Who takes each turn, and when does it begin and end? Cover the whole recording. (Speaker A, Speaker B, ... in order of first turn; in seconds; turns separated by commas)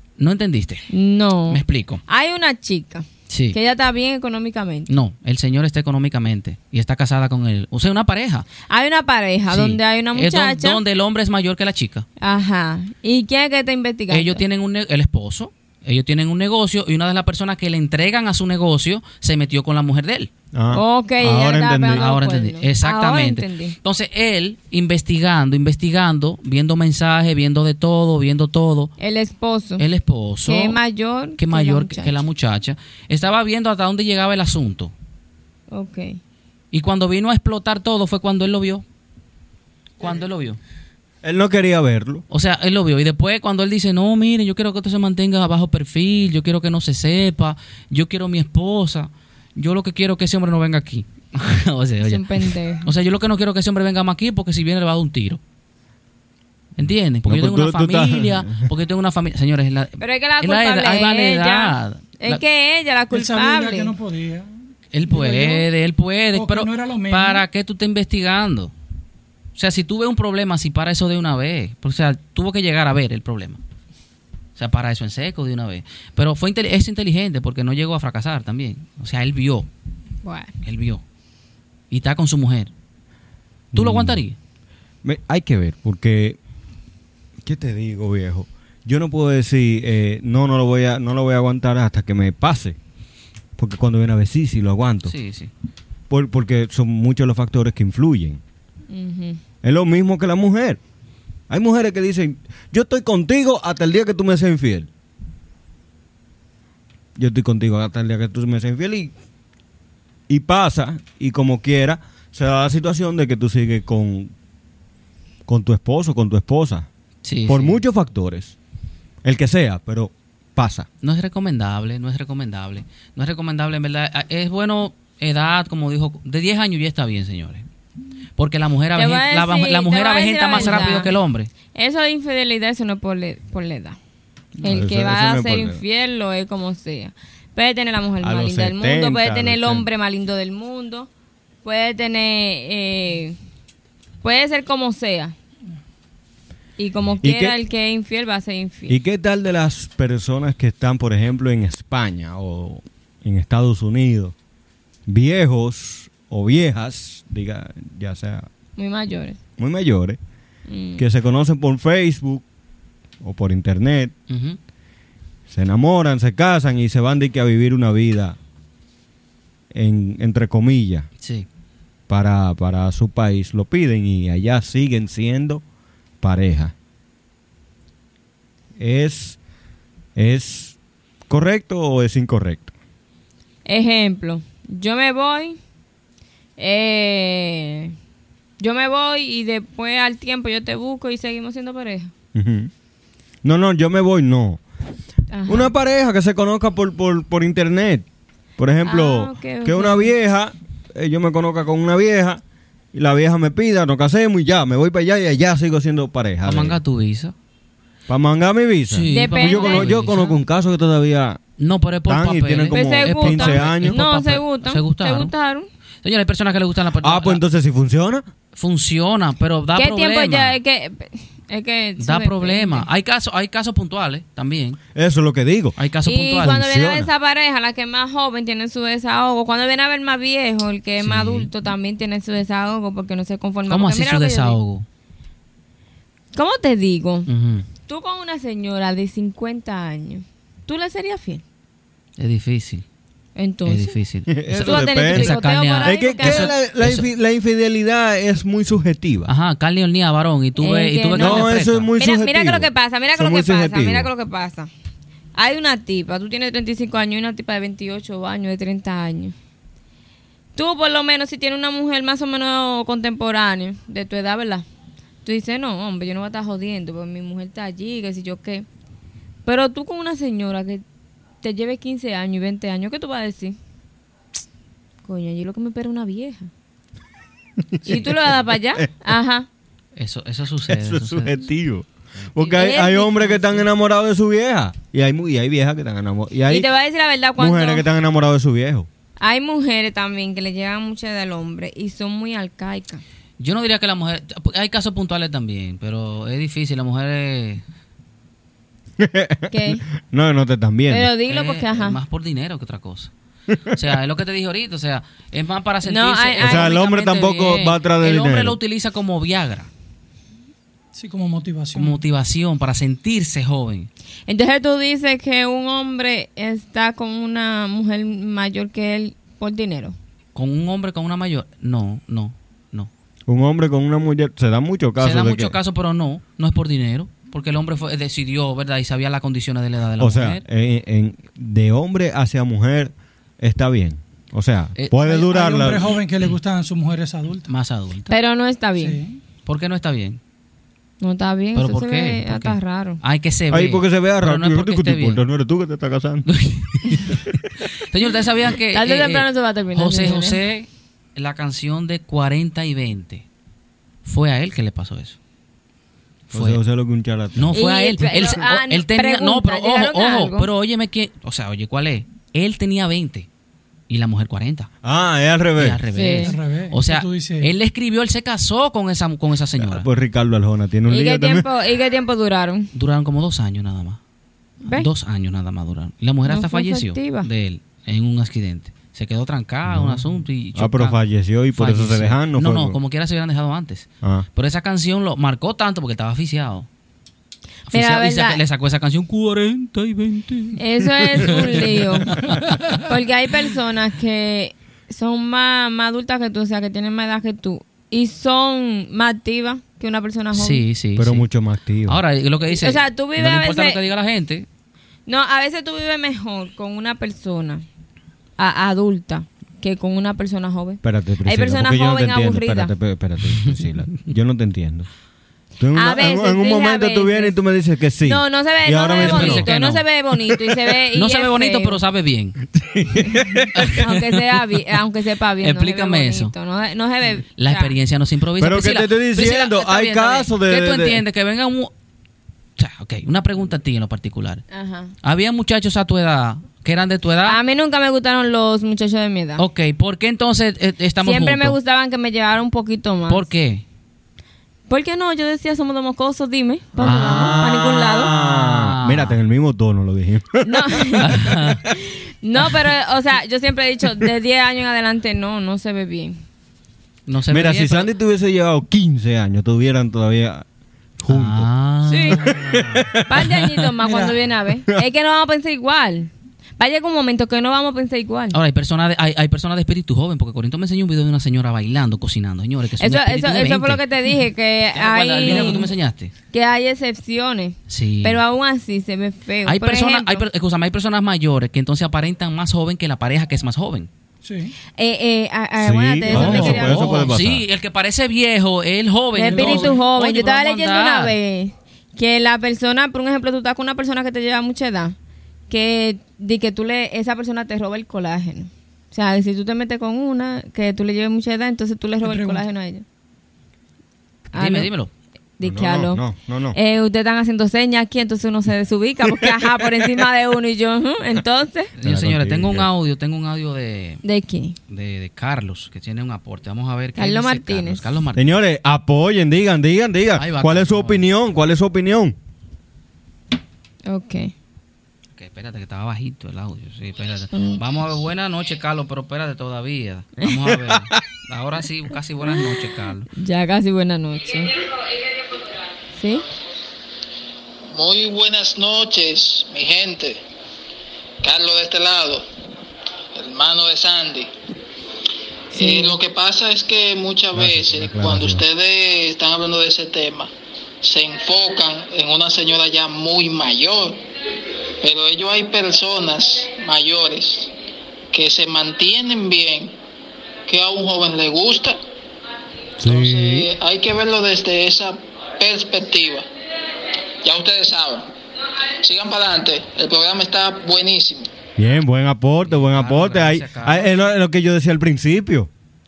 Speaker A: 0.2-0.9, Speaker B: 0.9-4.9, Speaker A: 1.5-2.0, Speaker A: 3.3-3.6, Speaker A: 4.9-8.5, Speaker B: 8.7-10.8, Speaker A: 9.5-12.1, Speaker B: 12.2-14.4, Speaker A: 14.1-20.3, Speaker C: 20.5-22.1, Speaker B: 20.7-23.8, Speaker A: 21.9-28.9, Speaker B: 29.0-29.8, Speaker A: 29.8-30.8, Speaker B: 30.5-32.2, Speaker A: 31.4-34.9, Speaker B: 35.7-36.2, Speaker A: 36.7-38.8, Speaker A: 40.0-40.6, Speaker C: 41.2-42.2, Speaker A: 42.3-55.4, Speaker B: 52.0-52.9, Speaker A: 56.8-62.4, Speaker C: 57.3-58.6, Speaker B: 60.0-63.9, Speaker D: 63.1-64.5, Speaker A: 64.9-68.7, Speaker D: 65.1-65.7, Speaker D: 66.3-67.5, Speaker A: 69.6-73.6, Speaker A: 74.6-79.7, Speaker B: 80.2-80.5, Speaker A: 80.6-81.0, Speaker A: 81.9-82.7, Speaker C: 83.7-84.2, Speaker A: 83.8-84.4, Speaker C: 85.0-86.4, Speaker C: 87.4-92.8, Speaker C: 93.6-95.2, Speaker A: 95.1-95.5, Speaker C: 96.1-98.4, Speaker B: 98.9-99.4, Speaker C: 99.6-100.8, Speaker C: 101.5-104.9, Speaker C: 107.2-109.1, Speaker C: 110.3-114.3, Speaker C: 115.5-116.9, Speaker A: 117.2-117.8, Speaker C: 117.5-118.6, Speaker C: 119.2-120.9, Speaker A: 121.0-127.7, Speaker A: 128.4-131.5, Speaker B: 129.0-131.1, Speaker B: 131.7-134.0, Speaker C: 134.6-135.8, Speaker B: 134.6-141.1, Speaker C: 138.2-139.9, Speaker B: 141.6-143.4, Speaker B: 144.2-145.3, Speaker B: 146.8-149.0, Speaker C: 147.2-147.6, Speaker C: 148.9-154.3, Speaker C: 155.1-158.5, Speaker B: 158.8-159.4, Speaker C: 159.6-160.2, Speaker B: 160.7-161.0, Speaker C: 161.0-162.4, Speaker C: 163.2-164.1, Speaker A: 164.3-164.6, Speaker C: 165.5-168.4, Speaker C: 169.7-171.1, Speaker A: 171.2-171.5, Speaker C: 172.1-175.6, Speaker C: 176.2-176.7, Speaker C: 178.8-179.4, Speaker C: 180.2-180.8, Speaker C: 181.3-182.7, Speaker B: 183.7-185.6, Speaker B: 186.6-187.9, Speaker B: 188.6-192.1, Speaker C: 192.3-192.7, Speaker C: 193.4-194.6, Speaker B: 195.3-195.7, Speaker C: 195.5-198.1, Speaker C: 198.6-202.4, Speaker B: 198.8-200.1, Speaker C: 202.9-206.8, Speaker A: 206.4-207.3, Speaker C: 208.1-211.4, Speaker A: 208.9-210.4, Speaker B: 209.1-209.9, Speaker A: 211.6-215.3, Speaker C: 212.1-214.0, Speaker B: 212.7-215.7, Speaker A: 216.0-217.4, Speaker C: 217.0-218.3, Speaker A: 218.6-220.6, Speaker B: 219.8-222.9, Speaker A: 222.0-224.8, Speaker C: 224.9-225.8, Speaker A: 225.8-226.6, Speaker B: 226.1-234.6, Speaker C: 226.4-227.1, Speaker A: 231.0-231.5, Speaker A: 233.7-234.8, Speaker B: 236.3-237.3, Speaker A: 237.3-237.7, Speaker B: 237.9-241.4, Speaker A: 242.2-242.8, Speaker B: 243.4-243.9, Speaker A: 243.7-247.1, Speaker C: 244.3-249.3, Speaker B: 244.6-246.5, Speaker A: 249.3-251.9, Speaker B: 250.6-254.7, Speaker C: 251.2-254.1, Speaker B: 255.4-259.4, Speaker B: 260.6-264.6, Speaker B: 265.2-268.7, Speaker B: 269.5-270.8, Speaker B: 271.4-273.6, Speaker B: 275.1-276.5, Speaker C: 277.7-278.9, Speaker B: 277.8-279.5, Speaker A: 280.0-281.4, Speaker C: 280.7-286.7, Speaker B: 282.4-283.6, Speaker B: 286.5-287.9, Speaker C: 287.4-288.9, Speaker B: 289.2-293.0, Speaker A: 293.4-297.6, Speaker C: 299.0-301.1, Speaker B: 299.5-299.8, Speaker B: 300.9-302.0, Speaker A: 301.3-303.1, Speaker A: 303.7-309.7, Speaker B: 305.9-306.9, Speaker C: 306.4-308.6, Speaker D: 310.9-312.0, Speaker A: 311.7-313.9, Speaker B: 314.3-319.9, Speaker A: 320.4-322.9, Speaker C: 323.3-325.6, Speaker A: 325.0-330.4, Speaker C: 330.0-335.9, Speaker D: 335.1-337.5, Speaker A: 337.5-338.1, Speaker B: 338.1-339.0, Speaker D: 338.8-339.2, Speaker A: 339.5-340.2, Speaker B: 341.0-343.0, Speaker A: 341.6-345.2, Speaker C: 343.5-346.3, Speaker A: 346.3-353.2, Speaker B: 348.7-350.4, Speaker A: 354.1-355.2, Speaker A: 356.3-356.6, Speaker C: 356.3-357.6, Speaker A: 357.4-363.3, Speaker B: 357.5-360.5, Speaker A: 363.9-364.7, Speaker C: 364.8-365.8, Speaker A: 365.6-369.9, Speaker B: 365.9-366.3, Speaker D: 366.2-367.5, Speaker C: 369.6-371.5, Speaker B: 370.9-372.7, Speaker A: 372.7-374.0, Speaker A: 374.7-381.0, Speaker B: 376.3-377.3, Speaker C: 379.7-380.0, Speaker C: 380.6-382.8, Speaker A: 381.6-386.7, Speaker B: 387.7-388.4, Speaker A: 387.7-392.8, Speaker B: 390.6-392.1, Speaker B: 392.8-400.6, Speaker A: 400.3-401.2, Speaker C: 401.0-402.0, Speaker A: 401.9-404.5, Speaker B: 402.5-403.8, Speaker B: 405.1-407.6, Speaker B: 408.4-412.7, Speaker C: 410.8-414.9, Speaker A: 413.4-413.7, Speaker C: 415.6-419.5, Speaker B: 415.8-417.4, Speaker B: 418.1-421.8, Speaker A: 419.0-419.9, Speaker A: 420.9-422.4, Speaker C: 422.5-423.8, Speaker A: 423.6-423.9, Speaker B: 423.7-427.7, Speaker A: 425.4-426.3, Speaker A: 427.4-431.7, Speaker C: 428.4-431.0, Speaker A: 432.6-434.4, Speaker B: 434.5-434.9, Speaker A: 435.0-437.4, Speaker B: 437.3-439.4, Speaker A: 439.4-441.6, Speaker B: 441.0-443.3, Speaker A: 443.1-443.6, Speaker B: 444.7-448.1, Speaker C: 446.8-451.6, Speaker A: 446.8-447.4, Speaker A: 448.0-449.2, Speaker B: 450.4-451.1, Speaker A: 451.0-451.6, Speaker B: 452.2-456.2, Speaker A: 457.1-457.9, Speaker C: 457.3-460.5, Speaker C: 461.0-461.5, Speaker A: 461.1-462.9, Speaker B: 461.9-462.2, Speaker C: 462.1-463.2, Speaker B: 463.1-468.4, Speaker D: 463.8-464.2, Speaker A: 468.3-473.8, Speaker B: 472.8-475.7, Speaker A: 474.8-476.1, Speaker D: 475.2-475.6, Speaker B: 476.3-480.2, Speaker A: 477.7-478.2, Speaker A: 479.5-483.9, Speaker D: 484.2-484.5, Speaker B: 484.8-487.0, Speaker C: 485.6-487.4, Speaker A: 486.1-491.1, Speaker B: 489.1-494.9, Speaker D: 489.3-489.8, Speaker B: 495.5-502.8, Speaker D: 502.0-502.4, Speaker B: 504.3-504.7, Speaker A: 504.3-504.9, Speaker B: 505.4-506.0, Speaker C: 505.4-506.6, Speaker B: 506.5-511.7, Speaker C: 509.1-509.6, Speaker A: 511.8-514.0, Speaker C: 511.8-512.7, Speaker B: 514.0-514.6, Speaker A: 514.7-518.3, Speaker B: 517.0-517.8, Speaker C: 518.1-522.1, Speaker A: 520.2-521.0, Speaker B: 523.9-524.3, Speaker A: 525.2-533.1, Speaker B: 527.3-527.6, Speaker B: 533.2-534.5, Speaker B: 536.0-536.2, Speaker E: 537.7-540.2, Speaker E: 541.2-542.3, Speaker E: 543.1-544.3, Speaker E: 545.5-550.3, Speaker B: 545.5-546.0, Speaker C: 547.3-548.4, Speaker E: 550.8-554.0, Speaker E: 554.8-557.5, Speaker E: 558.1-559.8, Speaker E: 560.5-561.8, Speaker C: 562.8-563.5, Speaker E: 562.8-566.3, Speaker E: 567.2-568.1, Speaker E: 568.8-571.3, Speaker C: 571.6-575.5, Speaker A: 572.5-574.1